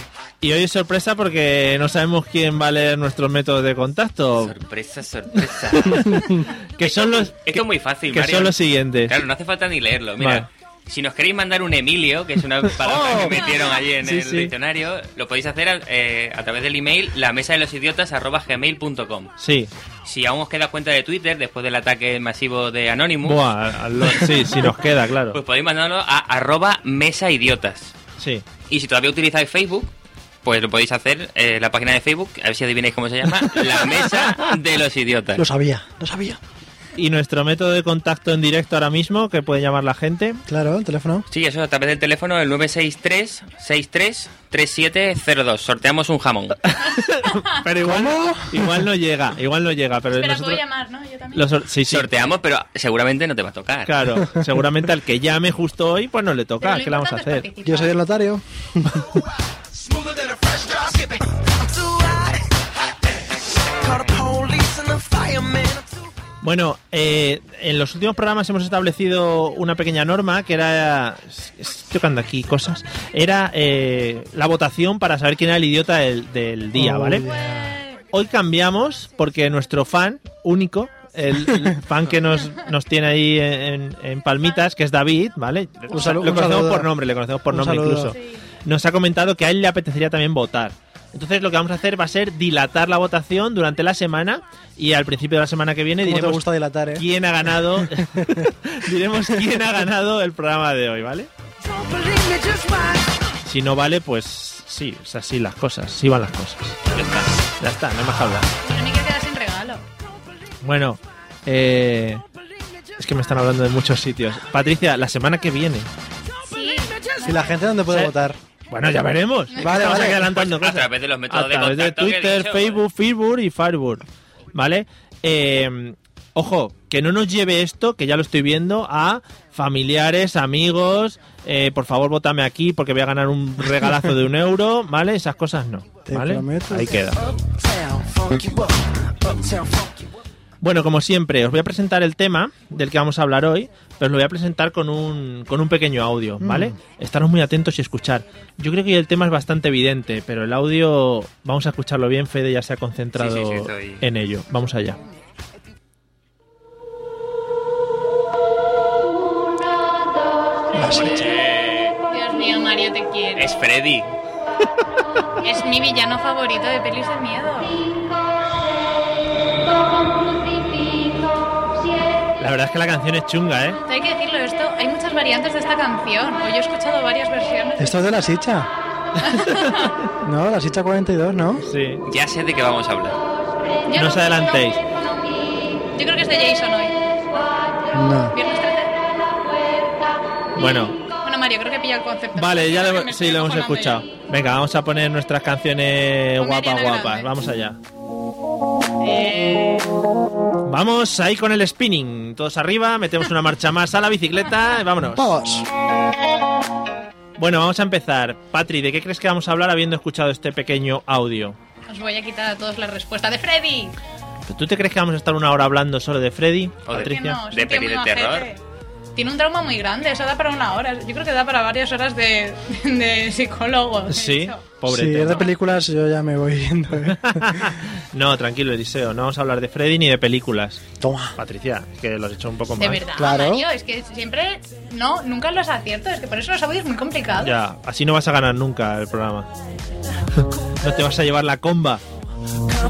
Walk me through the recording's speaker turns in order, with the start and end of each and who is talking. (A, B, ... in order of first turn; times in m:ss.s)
0:00.4-0:04.6 A
0:04.4-0:19.3 B
0:05.4-0:09.2 A
0:10.2-0:10.5 A
0:12.8-0:13.3 C
0:14.0-0:14.5 A
0:19.4-0:19.7 A
0:20.0-0:24.8 B
0:23.2-0:25.4 A
0:25.3-0:28.0 B
0:28.2-0:28.5 A
0:28.7-0:29.9 B
0:30.4-0:35.4 B
0:35.4-0:36.4 C
0:37.0-0:40.4 A
0:40.5-0:41.3 C
0:41.3-0:46.7 B
0:46.6-0:50.6 A
0:47.2-0:47.6 D
0:47.8-0:48.8 C
0:50.1-0:51.5 D
0:51.4-0:52.1 A
0:51.9-0:54.0 B
0:53.9-0:57.5 A
0:56.6-0:58.0 D
0:57.7-0:59.2 C
0:59.8-1:06.0 E
1:06.4-1:17.3 A
1:16.8-1:17.8 C
1:17.3-1:18.0 D
1:18.1-1:41.3 A
1:25.9-1:26.9 C
1:27.5-1:28.1 C
1:28.1-1:28.4 D
1:36.0-1:37.1 C
1:37.9-1:38.5 C
1:41.7-1:43.3 E
1:43.5-1:46.8 A
1:46.9-1:47.3 B
1:47.6-1:48.5 A
1:48.6-1:49.8 D
1:50.6-1:52.2 A
1:53.0-1:55.9 A
1:56.4-1:57.6 D
1:57.2-1:58.4 C
1:58.7-2:17.3 A
1:59.6-2:00.3 C
2:00.0-2:02.8 B
2:16.1-2:17.1 C
2:17.2-2:20.1 E
2:20.6-2:35.0 A
2:26.4-2:26.8 C
2:33.2-2:34.0 B
2:40.7-2:41.3 C
2:41.0-2:42.0 B
2:42.1-2:43.6 D
2:43.4-2:44.2 B
2:45.4-2:47.9 D
2:52.4-2:53.8 A
2:53.9-2:58.2 D
2:57.8-2:58.7 C
2:59.2-2:59.9 D
2:59.3-2:59.9 A
3:00.2-3:01.6 C
3:01.6-3:02.0 A
3:02.1-3:03.2 B
3:03.9-3:04.8 D
3:04.0-3:04.8 A
3:05.9-3:07.0 D
3:07.9-3:08.4 C
3:08.3-3:09.0 D
3:10.6-3:11.0 A
3:11.2-3:14.1 D
3:12.4-3:17.8 A
3:16.4-3:17.4 D
3:19.0-3:19.8 D
3:20.6-3:25.3 A
3:25.1-3:25.7 C
3:27.4-3:31.6 A
3:31.9-3:34.0 D
3:34.5-3:37.4 A
3:36.9-3:38.5 B
3:37.0-3:38.6 D
3:39.2-3:44.6 D
3:44.1-3:45.5 A
3:44.9-3:47.7 C
3:47.1-3:50.8 A
3:51.0-3:51.4 C
3:51.4-3:53.0 A
3:52.8-3:57.5 D
3:53.2-3:53.7 C
3:57.4-3:59.5 A
4:00.4-4:02.0 A